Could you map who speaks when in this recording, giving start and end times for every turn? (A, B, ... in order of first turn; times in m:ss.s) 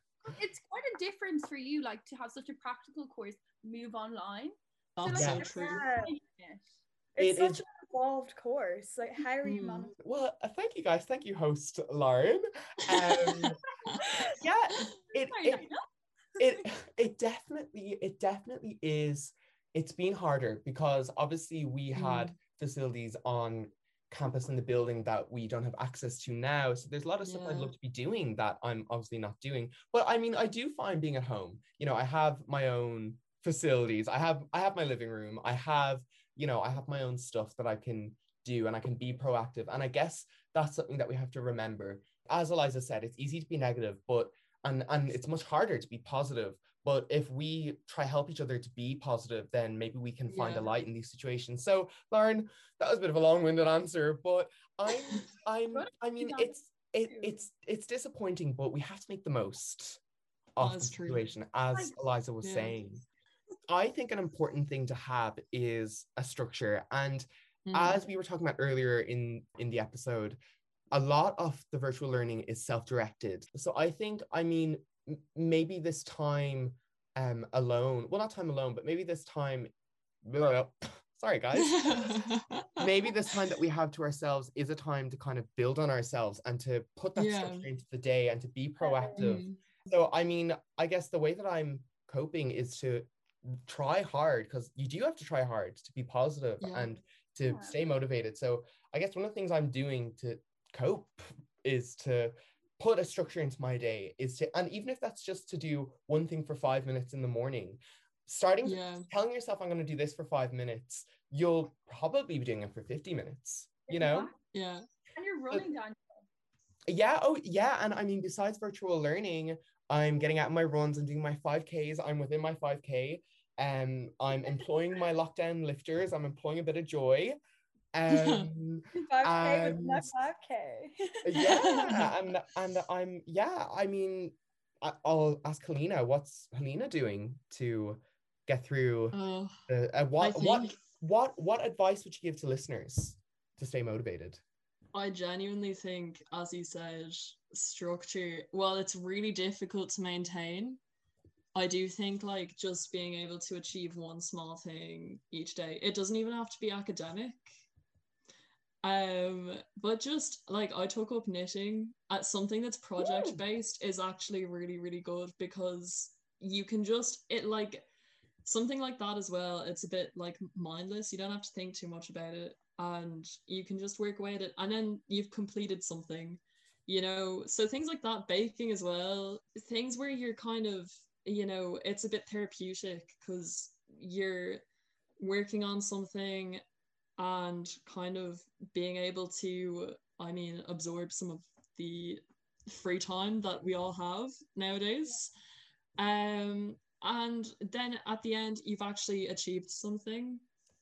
0:00.2-0:06.7 A
0:05.0-0:05.8 B
0:05.1-0:05.4 C
0:05.4-0:06.1 D
0:07.2-0:09.9 D
0:07.2-0:07.6 C
0:09.4-0:09.9 B
0:10.0-0:13.6 C
0:14.2-0:15.7 C
0:15.2-0:15.9 A
0:16.4-1:00.0 C
0:22.0-0:22.4 B
0:27.2-0:27.7 B
0:50.3-0:50.7 B
0:55.7-0:56.5 A
0:57.1-0:57.3 A
1:00.6-1:03.0 C
1:00.6-1:01.2 B
1:02.4-1:02.8 B
1:03.7-1:10.4 C
1:07.7-1:08.0 B
1:10.9-1:19.7 C
1:20.2-1:54.3 C
1:21.6-1:22.9 B
1:27.2-1:27.7 B
1:29.2-1:29.6 B
1:36.6-1:36.9 B
1:37.5-1:37.9 A
1:48.6-1:49.1 B
1:53.9-1:54.3 A
1:54.5-1:54.8 B
1:55.1-1:56.3 A
1:56.9-2:07.4 C
2:07.9-2:10.1 C
2:08.1-2:08.5 B
2:09.1-2:11.5 D
2:11.2-2:19.2 C
2:11.4-2:12.1 B
2:19.1-2:19.6 B
2:19.7-2:24.4 C
2:20.2-2:20.8 B
2:24.9-2:30.8 B
2:31.6-2:37.4 B
2:38.8-2:47.9 B
2:48.4-3:04.6 B
3:05.2-3:06.6 B
3:07.2-3:15.3 B
3:16.0-3:20.4 B